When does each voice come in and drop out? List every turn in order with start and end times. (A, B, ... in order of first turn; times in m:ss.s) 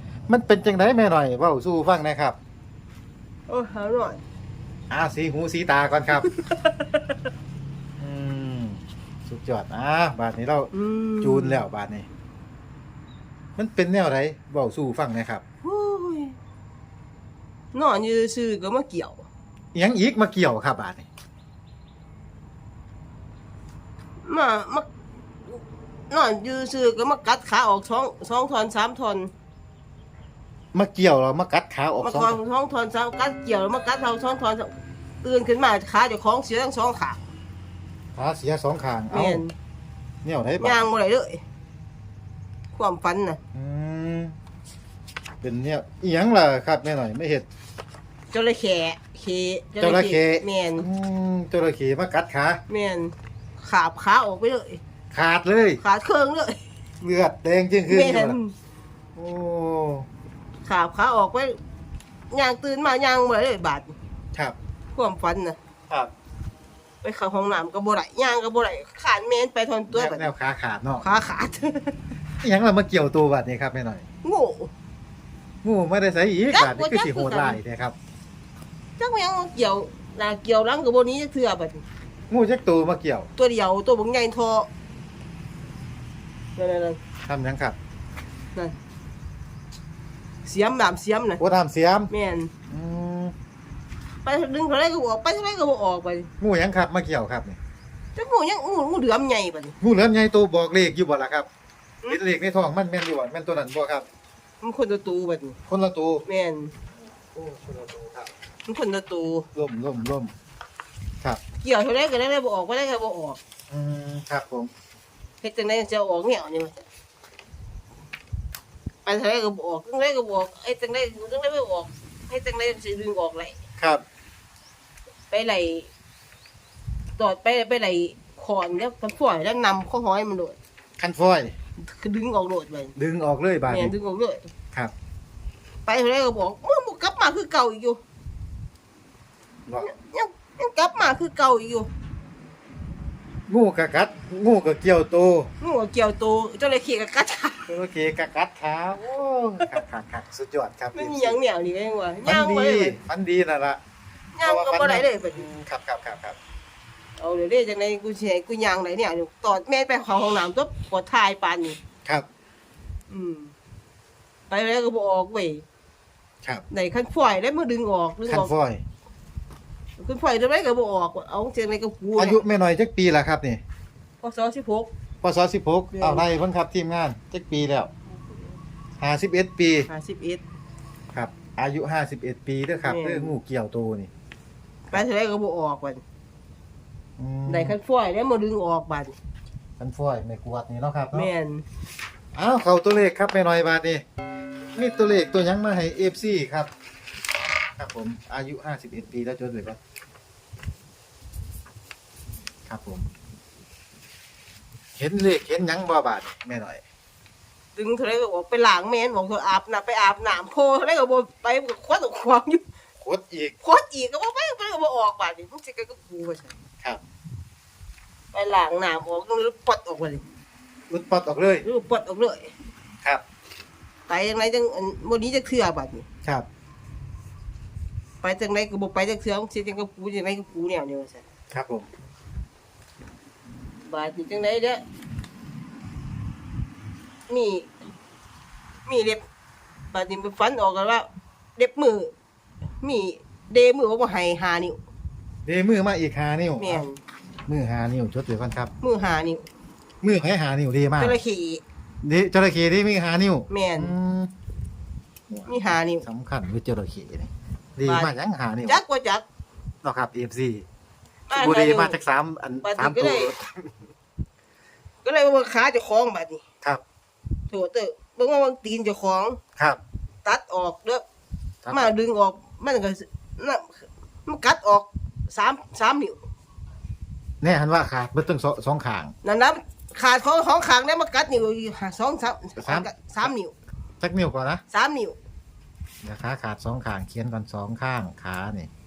0:00.3-0:02.4 A
0:03.5-0:04.2 B
0:04.9-0:06.3 A
0:06.2-0:07.3 B
0:08.0-0:12.1 A
0:10.7-0:11.6 B
0:13.6-0:15.4 A
0:15.6-0:16.4 B
0:17.7-0:19.3 B
0:19.7-0:21.1 A
0:24.2-0:24.9 B
0:25.5-0:29.3 B
0:30.7-0:32.4 A
0:32.0-0:37.2 B
0:38.2-0:39.4 A
0:39.1-0:39.5 B
0:40.2-0:40.8 A
0:40.6-0:41.4 B
0:42.8-0:43.4 B
0:43.6-0:44.4 A
0:45.4-0:47.5 A
0:48.3-0:50.9 B
0:49.8-0:52.6 A
0:52.7-0:54.8 B
0:55.1-0:55.8 A
0:55.8-0:56.6 B
0:57.0-0:58.4 A
0:57.9-0:58.6 B
0:59.2-1:00.1 A
1:00.6-1:01.6 B
1:02.3-1:03.9 B
1:05.0-1:05.6 B
1:07.0-1:10.3 B
1:09.9-1:11.0 A
1:11.0-1:12.0 B
1:12.4-1:14.1 A
1:14.2-1:14.7 B
1:15.6-1:18.0 A
1:16.5-1:17.6 B
1:19.0-1:21.8 B
1:22.3-1:23.3 A
1:23.4-1:24.7 B
1:26.6-1:27.0 B
1:27.3-1:27.8 A
1:30.4-1:31.4 B
1:31.4-1:32.1 A
1:32.1-1:32.5 B
1:32.7-1:33.3 A
1:34.2-1:36.3 B
1:36.4-1:37.6 A
1:38.2-1:39.8 B
1:39.8-1:41.5 A
1:42.1-1:44.1 A
1:44.6-1:45.6 B
1:45.7-1:46.2 A
1:46.3-1:46.7 B
1:47.3-1:48.3 A
1:48.7-1:49.5 B
1:49.6-1:50.3 A
1:51.6-1:53.4 B
1:53.7-1:54.7 A
1:55.4-1:56.8 B
1:59.1-2:03.6 B
2:05.3-2:05.9 B
2:07.2-2:10.6 B
2:11.0-2:11.5 A
2:11.8-2:12.9 B
2:13.0-2:14.0 A
2:13.7-2:14.5 B
2:15.9-2:18.0 B
2:19.8-2:21.9 B
2:23.5-2:25.5 A
2:25.6-2:27.7 B
2:27.7-2:31.4 A
2:30.9-2:33.0 B
2:32.2-2:33.8 A
2:34.4-2:35.5 B
2:34.4-2:36.4 A
2:37.2-2:41.8 B
2:43.1-2:43.5 B
2:44.5-2:45.6 B
2:46.7-2:48.5 B
2:48.3-2:48.8 A
2:50.0-2:52.4 B
2:52.2-2:53.6 A
2:54.2-2:54.9 B
2:55.2-2:57.9 A
2:55.9-2:56.3 B
2:58.1-2:58.6 B
2:59.0-2:59.9 A
2:59.9-3:00.4 B
3:01.1-3:04.1 A
3:02.8-3:03.4 B
3:04.9-3:06.0 B
3:07.2-3:07.8 A
3:07.5-3:09.2 B
3:09.8-3:11.3 A
3:11.1-3:11.6 B
3:12.3-3:14.0 A
3:14.7-3:16.7 A
3:17.8-3:19.8 A
3:22.7-3:23.1 A
3:25.0-3:26.8 A
3:27.8-3:32.6 B
3:33.0-3:33.6 A
3:33.6-3:36.6 B
3:38.3-3:40.2 B
3:40.9-3:41.6 A
3:41.6-3:42.5 B
3:44.1-3:46.0 B
3:48.2-3:51.2 B
3:51.5-3:51.9 A
3:53.9-3:54.8 B
3:57.3-3:57.7 B
3:58.9-3:59.2 B
3:59.9-4:02.1 B
4:02.8-4:04.8 B
4:05.5-4:06.8 A
4:06.6-4:07.0 B
4:07.5-4:08.7 A
4:08.8-4:09.5 B
4:10.0-4:11.2 A
4:11.0-4:11.6 B
4:12.0-4:14.3 A
4:13.5-4:14.0 B
4:15.3-4:18.8 A
4:15.5-4:16.0 B
4:17.9-4:18.1 B
4:18.7-4:19.2 B
4:19.8-4:20.7 A
4:21.3-4:22.0 B
4:21.3-4:23.8 A
4:22.6-4:23.3 B
4:25.0-4:26.4 B
4:27.5-4:29.4 B
4:30.2-4:31.0 B
4:31.6-4:31.9 A
4:31.7-4:36.2 B
4:37.4-4:39.1 A
4:39.2-4:43.5 B
4:42.6-4:43.3 A
4:44.0-4:44.6 A
4:44.7-4:45.2 B
4:46.0-4:48.7 A